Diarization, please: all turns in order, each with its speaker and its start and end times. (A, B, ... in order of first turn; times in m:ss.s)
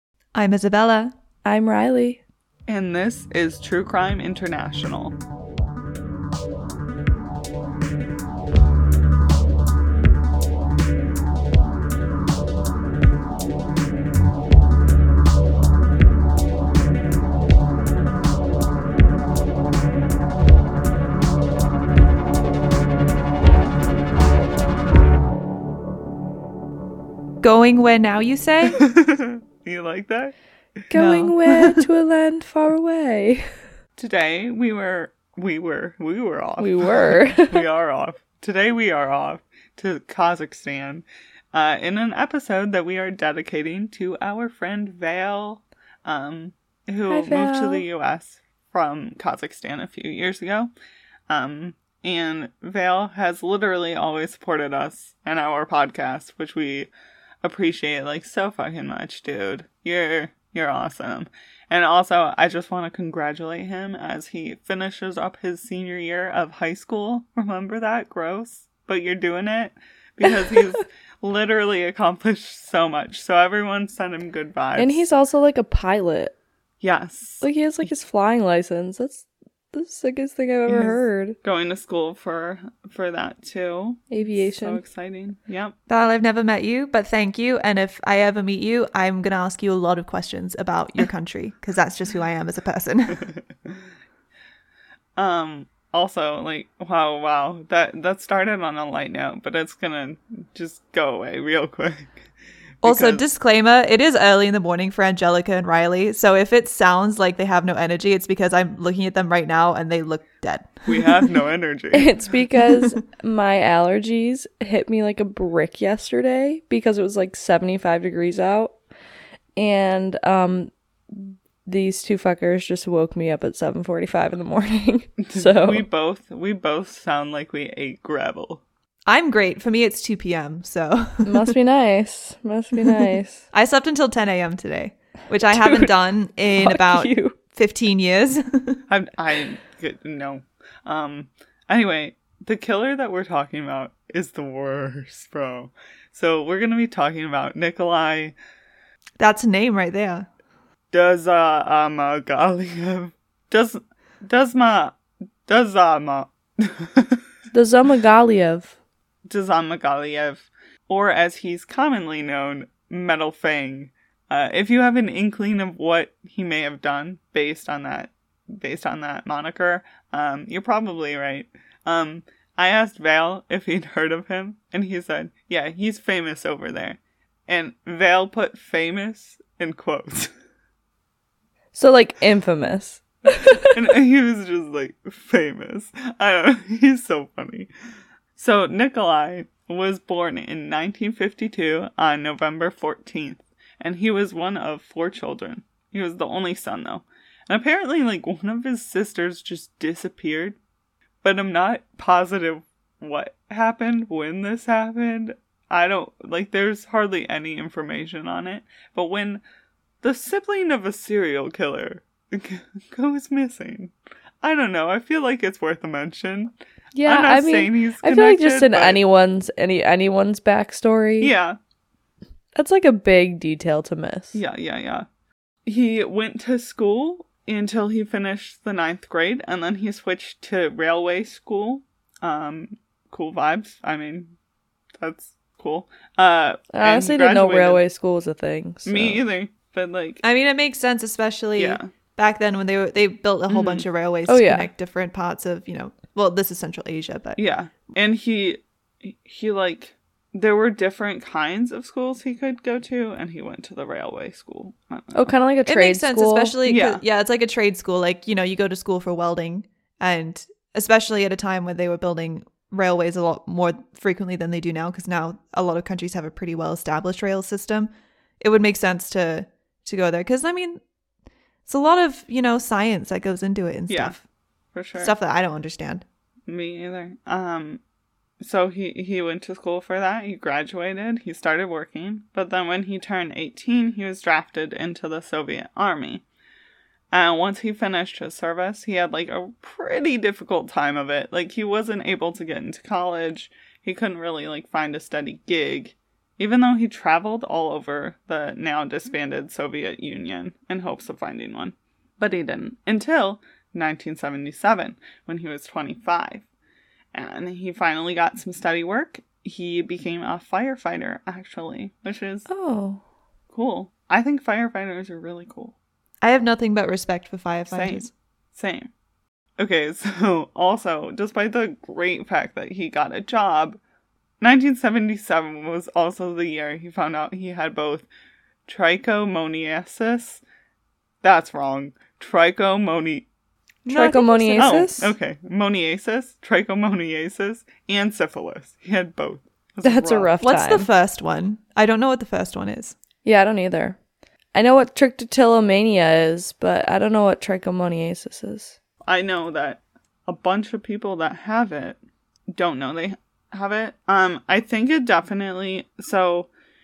0:00.3-0:01.1 A
0:01.4-0:02.2 B
0:02.7-0:05.2 C
0:27.4-0:28.8 A
0:28.7-0:30.3 C
0:30.9-0:33.5 B
0:30.9-0:31.8 A
0:34.0-0:50.7 C
0:36.6-0:37.6 B
0:47.1-0:47.8 B
0:51.3-0:56.9 C
0:57.4-1:15.0 C
1:14.8-1:16.3 B
1:16.8-1:17.9 C
1:17.4-1:21.4 B
1:20.7-1:25.7 C
1:24.1-1:24.8 B
1:25.9-1:33.3 A
1:35.2-1:42.1 C
1:42.8-1:43.2 C
1:42.8-1:51.3 A
1:50.8-1:52.1 C
1:51.9-1:58.7 B
1:52.6-1:53.0 A
1:59.6-2:05.8 B
2:05.2-2:08.6 C
2:09.1-2:11.5 A
2:11.2-2:13.4 B
2:12.8-2:18.8 A
2:15.5-2:15.9 B
2:16.6-2:17.3 B
2:18.9-2:28.3 C
2:29.2-2:30.3 A
2:30.9-2:37.2 C
2:37.5-2:38.7 B
2:39.3-3:00.3 C
3:01.7-3:03.8 B
3:03.7-3:07.7 C
3:08.4-3:20.6 C
3:21.2-3:29.4 C
3:30.0-3:36.5 C
3:36.9-3:41.3 B
3:37.0-3:39.0 C
3:41.2-3:41.6 C
3:42.5-3:44.4 B
3:44.3-3:45.0 C
3:45.6-3:54.3 C
3:55.0-3:57.8 C
3:56.7-3:59.2 B
3:58.8-4:00.2 C
4:00.2-4:07.4 A
4:01.6-4:01.9 C
4:03.5-4:03.8 C
4:04.3-4:04.7 B
4:07.4-4:15.3 C
4:15.1-4:16.6 B
4:15.6-4:30.8 A
4:16.6-4:17.0 C
4:31.6-4:34.2 A
4:33.9-4:34.2 C
4:34.7-4:35.1 C
4:35.0-4:36.0 A
4:36.5-4:37.8 C
4:38.4-4:46.2 C
4:47.1-5:06.4 C
5:07.1-5:12.4 C
5:12.5-5:13.0 B
5:13.5-5:15.7 C
5:16.2-5:18.1 A
5:17.7-5:18.9 C
5:19.6-5:23.8 C
5:24.4-5:28.1 C
5:28.7-5:30.4 C
5:31.2-5:33.3 C
5:33.8-5:34.9 A
5:33.9-5:35.1 B
5:34.6-5:40.3 C
5:39.8-5:40.9 B
5:40.4-5:43.0 A
5:43.2-5:44.0 B
5:44.5-5:48.8 B
5:49.0-5:52.0 C
5:52.5-5:56.5 C